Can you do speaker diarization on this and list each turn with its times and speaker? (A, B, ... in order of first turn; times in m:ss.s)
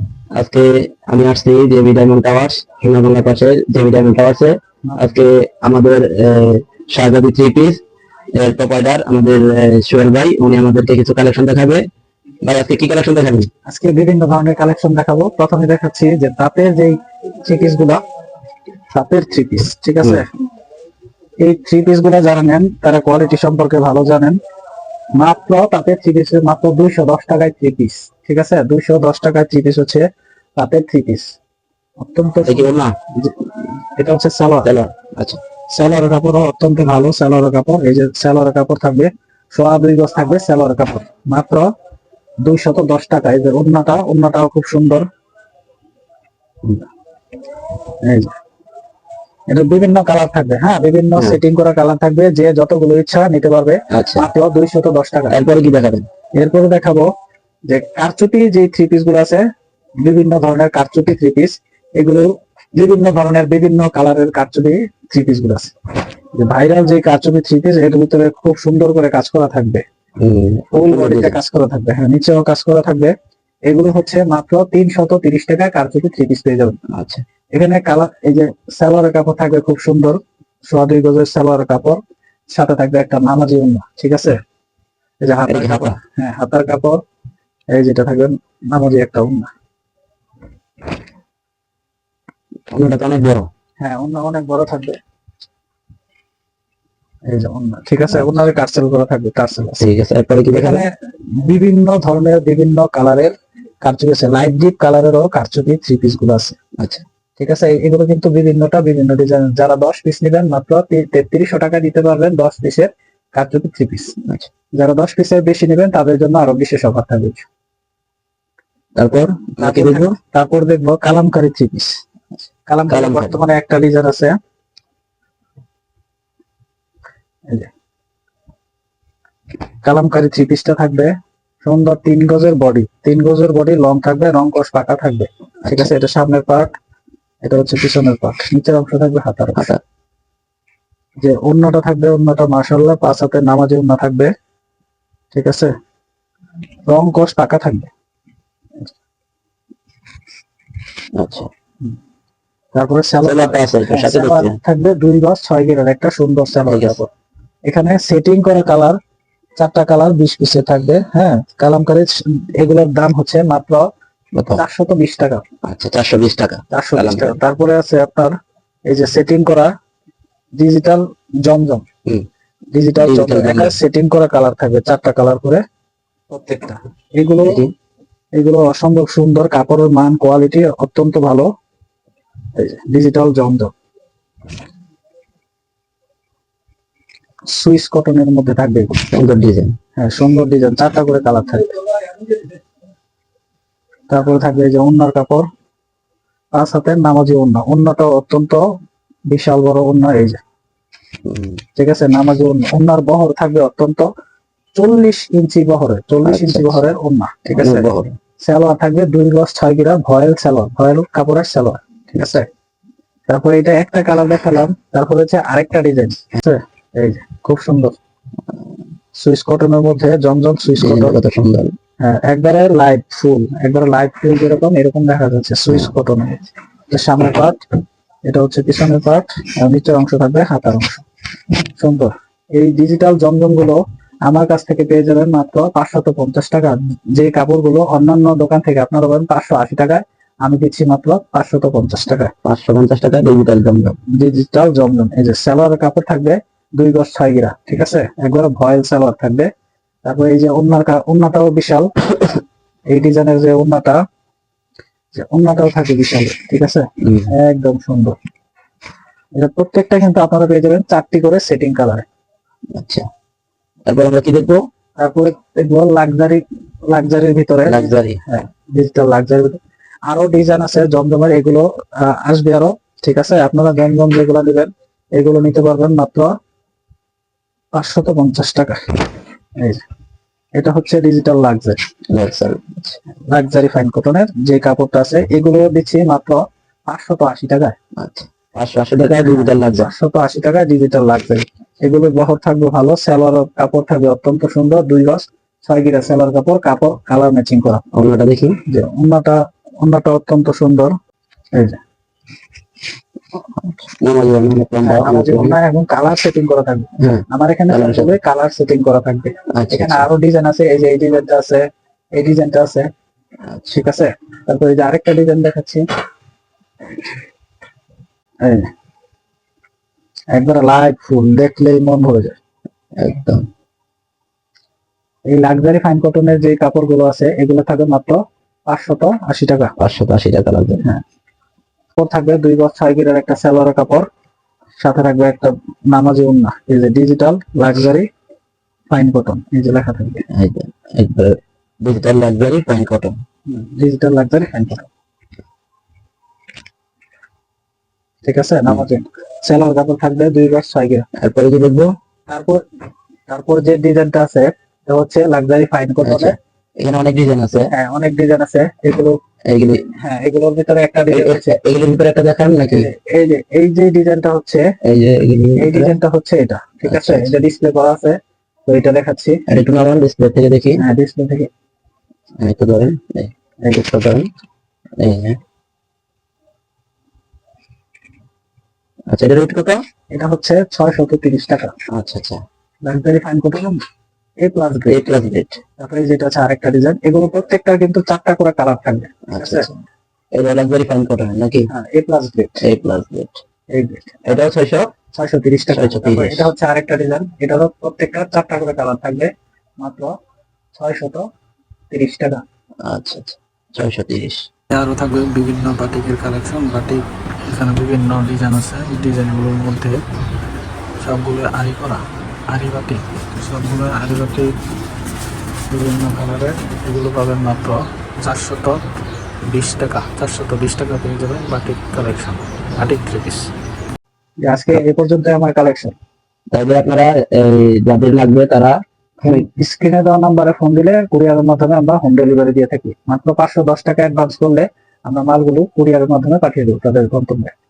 0:00.3-0:07.8 A
0:04.8-0:05.2 B
0:08.3-0:11.8 A
0:12.4-0:13.5 A
0:13.7-0:18.0 B
0:18.9-0:20.3 B
0:21.4-0:24.4 B
0:25.2-0:30.0 B
0:30.6-0:31.2 B
0:32.0-0:34.7 B
0:32.4-0:32.9 A
0:34.6-0:35.4 A
0:35.7-0:41.7 B
0:42.4-0:45.0 B
0:48.0-0:48.3 B
0:49.5-0:55.4 B
0:53.9-0:54.2 A
0:55.3-0:56.0 A
0:56.4-0:57.1 B
0:57.7-0:59.4 B
1:00.0-1:05.7 B
1:06.4-1:09.8 B
1:10.2-1:11.4 A
1:10.7-1:13.1 B
1:13.7-1:16.8 B
1:16.9-1:17.2 A
1:17.5-1:22.0 B
1:22.5-1:24.4 B
1:25.2-1:27.0 B
1:25.5-1:26.0 A
1:27.7-1:29.5 B
1:32.7-1:33.5 A
1:33.8-1:35.0 B
1:37.3-1:39.8 B
1:38.1-1:38.4 A
1:39.8-1:40.8 A
1:40.5-1:40.9 B
1:41.4-1:46.6 B
1:47.4-1:54.1 B
1:54.8-1:57.4 B
1:59.0-2:00.0 A
1:59.6-2:01.9 B
2:02.7-2:04.4 B
2:02.9-2:03.4 A
2:09.8-2:11.1 B
2:11.6-2:16.7 B
2:15.6-2:15.9 A
2:17.4-2:19.7 B
2:21.2-2:24.3 B
2:25.3-2:25.7 B
2:26.9-2:27.9 B
2:31.2-2:31.5 A
2:32.7-2:37.1 B
2:33.2-2:34.6 A
2:36.6-2:37.0 A
2:37.7-2:39.0 B
2:39.6-2:43.8 B
2:44.3-2:44.6 A
2:44.5-2:45.4 B
2:45.6-2:47.3 A
2:46.7-2:48.3 B
2:48.9-2:49.7 B
2:50.6-2:51.8 B
2:52.7-2:55.6 B
2:53.0-2:53.8 A
2:56.3-2:57.6 B
2:57.4-2:57.7 A
2:58.3-3:01.5 B
3:02.6-3:03.7 B
3:07.5-3:09.0 B
3:09.0-3:09.7 A
3:10.0-3:11.9 B
3:14.1-3:15.4 B
3:16.6-3:18.6 B
3:19.3-3:20.4 B
3:21.2-3:21.6 A
3:21.8-3:24.1 B
3:24.8-3:27.9 B
3:26.2-3:26.8 A
3:27.6-3:28.1 A
3:28.4-3:32.4 B
3:33.3-3:38.0 B
3:39.2-3:41.2 B
3:40.8-3:41.7 A
3:42.0-3:47.6 B
3:48.3-3:51.0 B
3:51.8-4:02.3 B
4:02.4-4:04.0 A
4:04.1-4:09.5 B
4:10.0-4:11.9 B
4:12.9-4:14.0 B
4:15.2-4:18.1 B
4:17.0-4:17.3 A
4:19.4-4:22.0 B
4:22.8-4:23.1 A
4:23.9-4:24.6 A
4:25.0-4:29.6 B
4:27.6-4:28.2 A
4:30.1-4:36.3 B
4:37.7-4:38.8 B
4:40.6-4:41.8 B
4:42.1-4:43.0 A
4:43.3-4:47.7 B
4:48.0-4:49.9 A
4:49.0-4:57.8 B
4:57.9-4:58.6 A
4:58.7-5:00.9 B
5:03.5-5:05.6 A
5:04.8-5:11.6 B
5:07.0-5:08.1 A
5:09.5-5:10.1 A
5:12.1-5:12.9 B
5:13.5-5:13.8 A
5:13.7-5:15.8 B
5:18.4-5:18.7 B
5:20.3-5:22.3 B
5:23.0-5:23.4 A
5:25.3-5:29.7 B
5:29.8-5:30.8 A
5:32.0-5:34.0 B
5:34.8-5:38.0 B
5:38.9-5:40.2 B
5:40.3-5:43.2 A
5:43.5-5:44.9 B
5:48.2-5:51.0 B
5:51.2-5:51.9 A
5:52.3-5:52.6 B
5:53.3-5:56.4 B
5:56.0-5:57.7 A
5:57.7-5:59.2 B
5:59.5-5:59.8 A
6:00.0-6:01.6 B
6:01.1-6:02.9 A
6:02.7-6:04.6 B
6:04.8-6:05.9 A
6:05.6-6:08.2 B
6:06.8-6:07.3 A
6:08.7-6:09.4 B
6:09.5-6:10.8 A
6:10.8-6:11.5 B
6:12.4-6:14.3 A
6:15.0-6:15.4 A
6:19.1-6:19.8 A
6:20.1-6:21.7 B
6:21.9-6:22.4 A
6:22.8-6:23.8 B
6:24.4-6:25.0 B
6:24.9-6:25.6 A
6:25.8-6:29.7 B
6:29.3-6:29.8 A
6:30.3-6:31.7 A
6:31.7-6:32.6 B
6:32.6-6:33.4 A
6:33.7-6:34.4 B
6:34.3-6:34.9 A
6:35.1-6:40.1 B
6:35.7-6:36.5 A
6:40.7-6:41.2 B
6:41.9-6:42.4 B
6:42.9-6:44.4 A
6:44.7-6:50.0 B
6:51.0-6:54.5 B
6:55.7-6:58.8 B
6:59.5-7:03.5 B
7:04.4-7:05.9 B
7:06.5-7:09.4 A
7:09.2-7:17.5 B